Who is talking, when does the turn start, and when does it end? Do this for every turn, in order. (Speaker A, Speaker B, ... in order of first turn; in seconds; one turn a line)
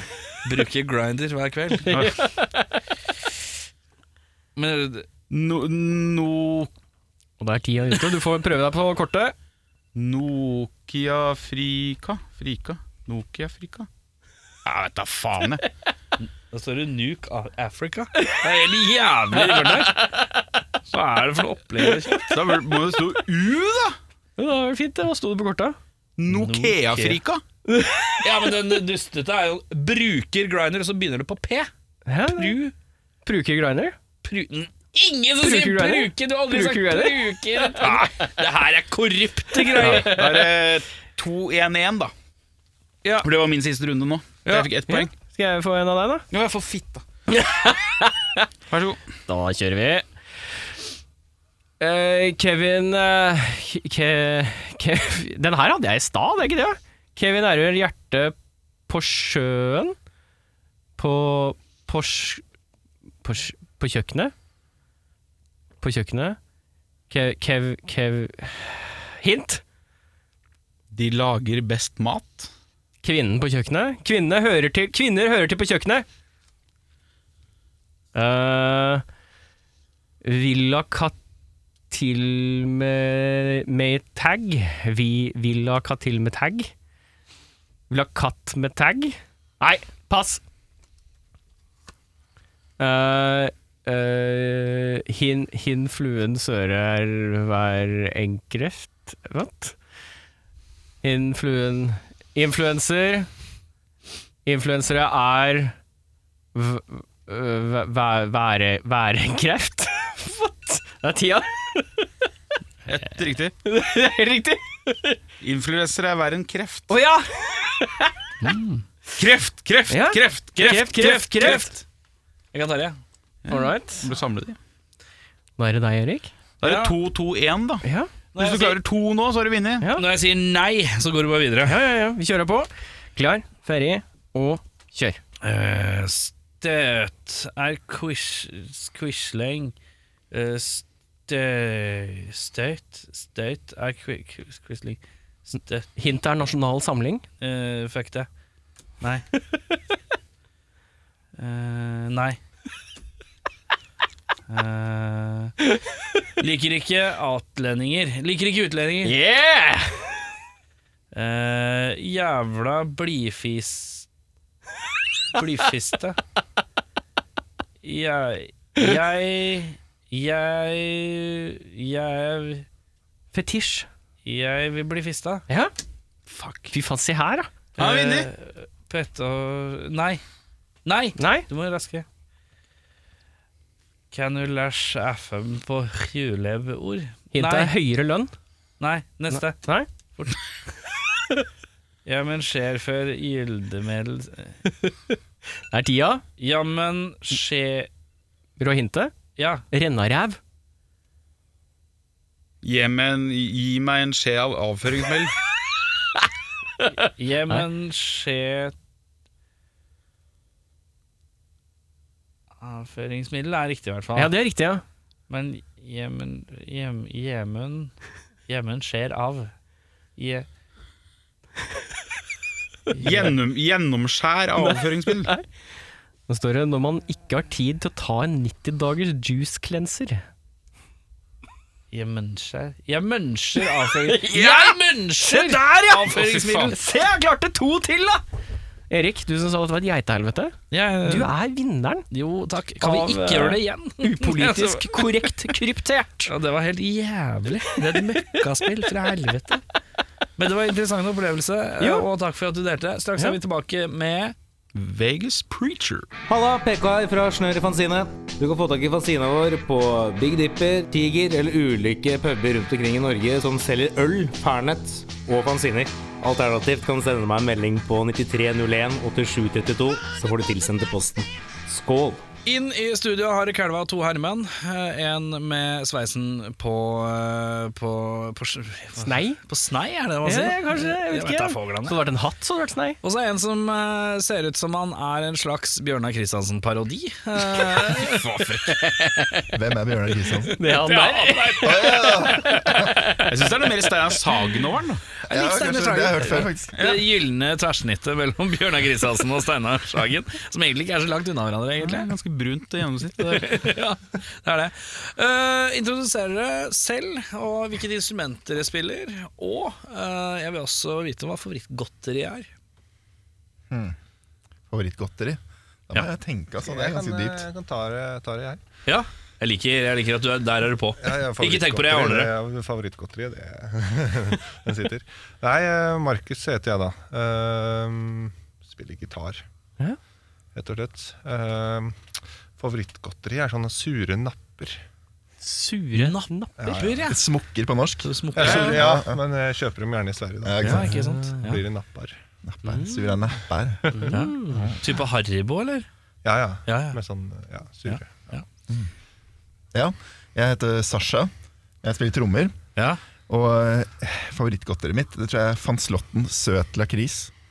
Speaker A: 0.4-1.9
Speaker B: 1.9-2.8
Speaker C: 1.9-2.2
Speaker A: 4.6-5.1
Speaker C: 5.3-6.7
Speaker B: 7.4-9.3
Speaker C: 9.9-13.9
Speaker C: 14.7-15.6
Speaker A: 16.2-20.1
Speaker B: 19.3-20.4
Speaker A: 20.9-22.3
Speaker C: 22.3-24.0
Speaker B: 24.4-25.8
Speaker C: 26.2-27.4
Speaker A: 26.3-27.2
Speaker B: 27.7-28.3
Speaker A: 28.2-31.7
Speaker B: 32.1-32.6
Speaker A: 32.3-32.7
Speaker B: 33.2-34.0
Speaker A: 34.2-40.5
Speaker B: 35.4-38.3
Speaker B: 39.6-40.3
Speaker C: 39.8-42.1
Speaker A: 43.0-43.3
Speaker C: 43.2-45.1
Speaker B: 44.9-46.2
Speaker C: 46.3-47.0
Speaker B: 47.3-48.5
Speaker C: 48.7-49.0
Speaker B: 49.3-50.1
Speaker B: 51.8-58.4
Speaker B: 58.9-60.0
Speaker B: 61.0-62.4
Speaker B: 63.2-64.3
Speaker B: 65.8-66.4
Speaker B: 67.1-69.6
Speaker C: 70.9-72.5
Speaker B: 73.0-76.1
Speaker B: 78.1-79.0
Speaker B: 80.2-81.2
Speaker B: 81.9-86.7
Speaker B: 87.9-90.4
Speaker B: 92.8-99.8
Speaker B: 101.0-103.3
Speaker B: 104.5-105.8
Speaker B: 106.5-112.1
Speaker C: 112.9-113.5
Speaker B: 113.6-115.2
Speaker C: 115.4-116.9
Speaker B: 116.9-118.2
Speaker A: 118.4-118.8
Speaker C: 119.2-120.9
Speaker B: 119.9-121.7
Speaker A: 120.6-121.8
Speaker A: 122.5-123.0
Speaker C: 123.5-124.6
Speaker B: 123.5-124.1
Speaker B: 125.6-126.3
Speaker C: 126.6-127.8
Speaker A: 126.6-127.0
Speaker B: 127.8-128.1
Speaker A: 128.3-128.8
Speaker C: 128.4-129.9
Speaker B: 129.8-130.1
Speaker A: 129.9-131.8
Speaker B: 131.7-135.2
Speaker A: 135.4-139.8
Speaker A: 140.3-145.9
Speaker B: 146.0-147.2
Speaker A: 147.4-148.3
Speaker A: 149.0-149.3
Speaker A: 151.4-152.4
Speaker A: 154.5-155.5
Speaker A: 156.4-159.2
Speaker B: 159.0-160.1
Speaker A: 161.1-164.1
Speaker A: 165.3-166.2
Speaker A: 167.8-172.7
Speaker B: 173.3-173.9
Speaker A: 174.2-175.5
Speaker C: 176.3-176.7
Speaker B: 176.7-177.5
Speaker C: 177.8-178.3
Speaker A: 177.8-180.2
Speaker A: 180.8-182.1
Speaker B: 181.2-181.5
Speaker A: 184.1-187.8
Speaker B: 187.3-188.3
Speaker A: 188.8-189.6
Speaker B: 189.3-189.9
Speaker A: 192.1-194.6
Speaker B: 194.7-194.9
Speaker B: 195.7-196.2
Speaker A: 196.4-197.9
Speaker B: 198.6-199.2
Speaker A: 199.4-199.6
Speaker B: 199.7-200.4
Speaker C: 202.6-205.3
Speaker A: 207.0-208.7
Speaker A: 212.6-214.3
Speaker B: 214.2-214.8
Speaker A: 215.3-217.9
Speaker A: 218.5-219.5
Speaker A: 220.2-220.5
Speaker A: 222.9-223.3
Speaker C: 223.0-225.3
Speaker B: 224.6-225.4
Speaker B: 226.3-230.2
Speaker A: 231.9-236.8
Speaker B: 233.9-234.7
Speaker B: 235.2-238.2
Speaker C: 236.1-236.7
Speaker B: 238.9-242.1
Speaker A: 240.7-241.3
Speaker A: 242.1-245.4
Speaker B: 242.8-246.3
Speaker A: 246.3-249.6
Speaker B: 247.9-248.9
Speaker A: 250.4-254.3
Speaker B: 251.8-252.1
Speaker C: 254.8-256.1
Speaker D: 256.3-272.2
Speaker A: 272.5-282.0
Speaker B: 279.0-279.4
Speaker B: 280.2-283.0
Speaker A: 283.0-288.8
Speaker C: 288.0-289.1
Speaker E: 289.5-290.6
Speaker B: 290.5-293.3
Speaker A: 290.6-292.8
Speaker E: 291.6-292.9
Speaker C: 293.2-295.0
Speaker E: 295.3-296.8
Speaker A: 295.3-302.1
Speaker C: 301.8-303.7
Speaker A: 303.2-312.5
Speaker E: 313.7-314.0
Speaker E: 314.7-317.4
Speaker F: 316.6-318.6
Speaker A: 318.9-322.3
Speaker F: 321.0-329.4
Speaker F: 330.6-332.0
Speaker F: 332.6-334.8
Speaker B: 335.4-336.5
Speaker A: 335.9-337.2
Speaker F: 336.6-337.1
Speaker E: 337.1-339.2
Speaker A: 338.0-338.9
Speaker F: 338.4-342.2
Speaker E: 340.4-341.0
Speaker A: 340.6-341.6
Speaker E: 342.5-344.8
Speaker B: 342.7-343.2
Speaker B: 343.9-344.6
Speaker A: 344.1-345.9
Speaker F: 346.2-348.4
Speaker A: 346.7-347.0
Speaker A: 347.9-348.4
Speaker E: 349.7-351.3
Speaker E: 351.8-352.6
Speaker A: 352.8-353.0
Speaker E: 353.3-357.3